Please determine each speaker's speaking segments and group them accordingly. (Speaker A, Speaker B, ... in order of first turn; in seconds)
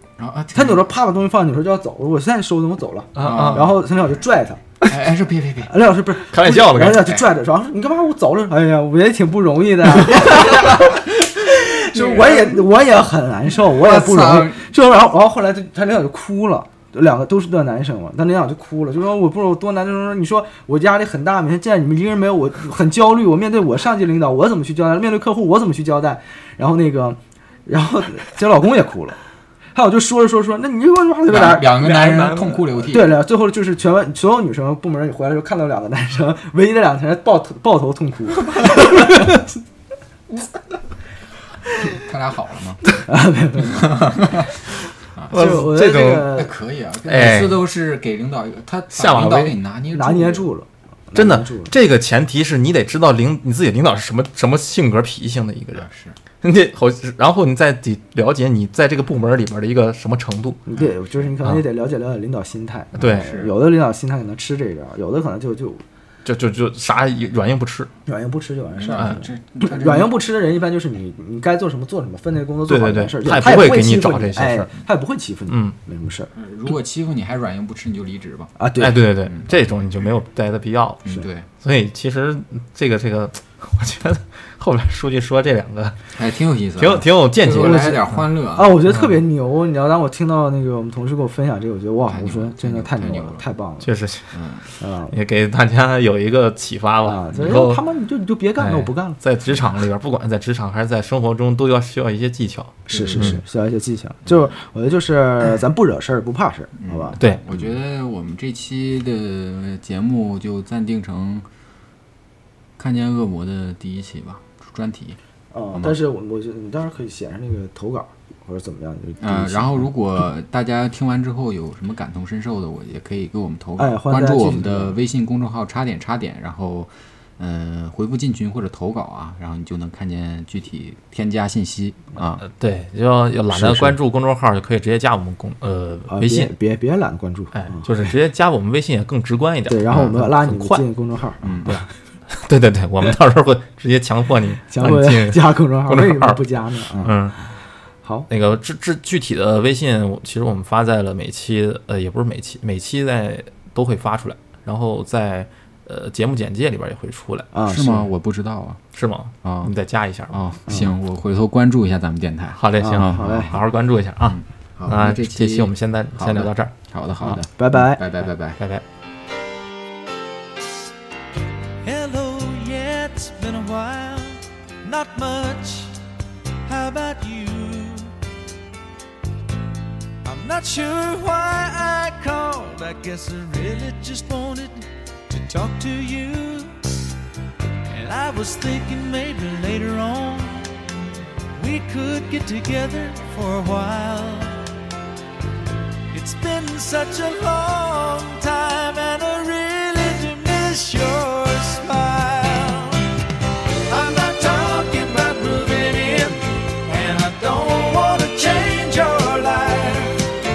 Speaker A: 0.2-0.8, 3.2-3.7, 4.8-5.7, 11.9-12.7, 13.6-14.7, 31.3-33.1, 41.9-42.8, 43.9-44.5, 45.1-45.4, 46.3-50.5, 55.7-56.2, 60.7-61.3, 63.0-63.5, 68.8-70.1, 76.3-78.5, 79.3-79.5, 81.0-81.5, 86.2-88.8, 92.1-93.5, 94.3-94.7, 97.3-97.6, 99.5-99.8, 102.9-103.4, 106.8-111.5, 112.8-115.2, 115.7-116.0, 119.2-132.5, 141.4-141.8, 157.7-158.8, 159.4-159.7, 160.3-163.6, 164.3-168.6
Speaker B: 0.6-4.6, 5.7-29.2, 29.7-32.0, 32.9-39.6, 43.0-44.2, 45.3-46.5, 49.9-51.7, 60.7-65.8, 68.1-76.3, 78.6-79.0, 87.5-93.9, 94.8-95.2, 97.0-99.2, 102.9-107.2, 115.5-119.9, 123.8-125.0, 133.5-134.0, 136.1-138.1, 139.7-141.8, 144.7-147.3, 148.0-148.3, 157.5-158.1, 162.8-163.5, 167.6-168.0
Speaker C: 3.2-3.8, 6.3-7.2, 31.7-32.7, 45.3-46.4, 47.1-47.6, 48.9-49.6, 51.1-55.9, 56.4-60.6, 63.0-63.3, 66.2-67.9, 72.7-74.7, 75.5-75.8, 78.8-86.1, 86.8-88.1, 88.9-89.2, 93.8-94.3, 95.1-97.8, 98.6-103.4, 107.2-107.4, 132.4-136.5, 137.5-140.9, 141.7-146.4, 147.0-147.4, 148.3-157.5, 158.9-160.4, 162.6-167.4, 168.6-168.8
Speaker D: 171.8-176.0, 176.7-178.1, 180.2-187.1, 187.9-190.8, 191.6-194.7, 196.1-203.2, 203.9-210.3